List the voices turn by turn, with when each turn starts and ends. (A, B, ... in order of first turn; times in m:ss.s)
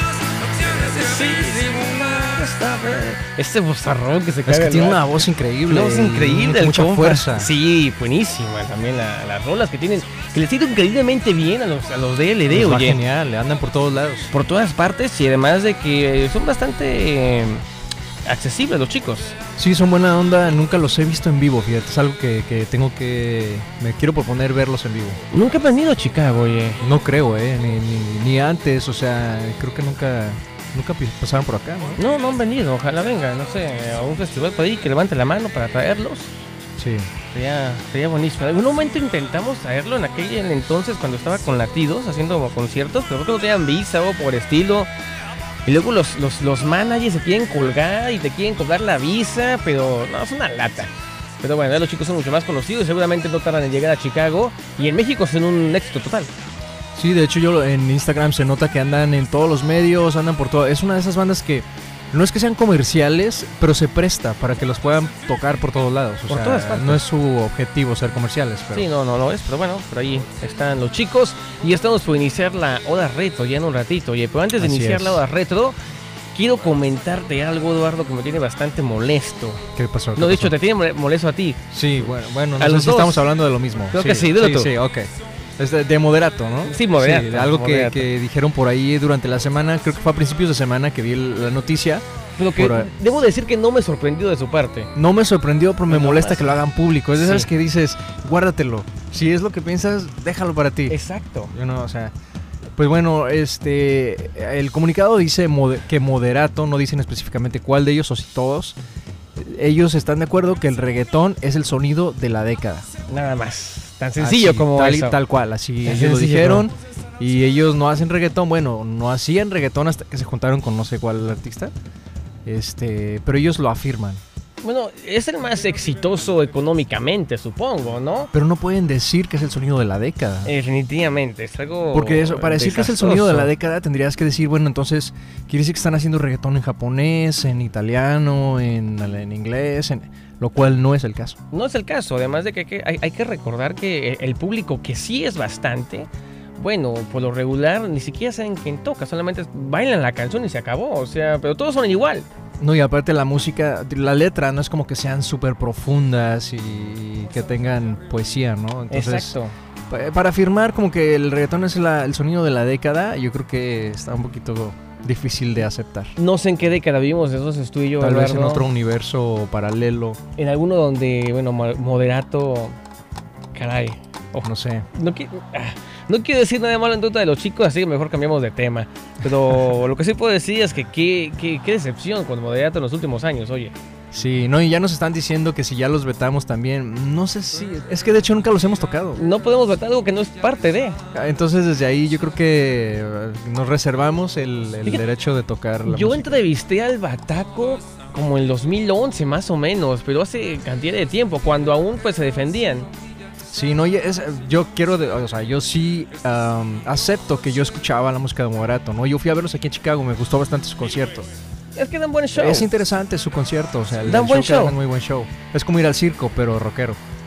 0:00.5-0:05.0 A
0:04.4-0:07.5 B
0:05.7-0:13.0 A
0:12.5-0:14.3 B
0:14.3-0:17.6 A
0:18.2-0:19.4 A
0:19.6-0:25.2 B
0:25.3-0:26.8 A
0:26.8-0:32.0 B
0:32.0-0:36.3 A
0:36.8-0:37.1 B
0:37.3-0:44.9 A
0:45.6-0:56.3 A
0:56.9-1:08.9 B
1:06.3-1:07.0 A
1:08.7-1:15.7 A
1:14.6-1:15.2 B
1:16.3-1:21.6 A
1:19.7-1:20.6 B
1:21.7-1:32.0 B
1:22.6-1:23.3 A
1:23.9-1:24.7 A
1:26.7-1:28.1 A
1:32.4-1:34.9 A
1:32.5-1:32.9 B
1:34.9-1:41.0 B
1:35.9-1:36.6 A
1:37.2-1:37.5 A
1:40.9-1:41.5 A
1:41.5-1:42.1 B
1:42.8-1:48.8 B
1:49.4-1:52.9 B
1:53.1-1:55.2 A
1:54.2-2:01.7 B
1:55.8-1:56.7 A
2:02.4-2:04.2 B
2:04.6-2:08.3 A
2:08.3-2:10.5 B
2:10.4-2:13.5 A
2:11.9-2:21.4 B
2:21.5-2:32.3 A
2:32.6-2:39.4 B
2:38.9-2:39.5 A
2:39.9-2:46.1 B
2:46.2-2:48.6 A
2:48.0-2:50.2 B
2:50.4-2:52.8 A
2:53.5-3:03.7 A
2:54.4-2:54.9 B
3:04.1-3:09.2 B
3:09.2-3:11.0 A
3:11.1-3:16.4 B
3:15.8-3:22.9 A
3:23.5-3:31.3 B
3:31.8-3:32.7 A
3:32.3-3:37.0 B
3:34.0-3:34.8 A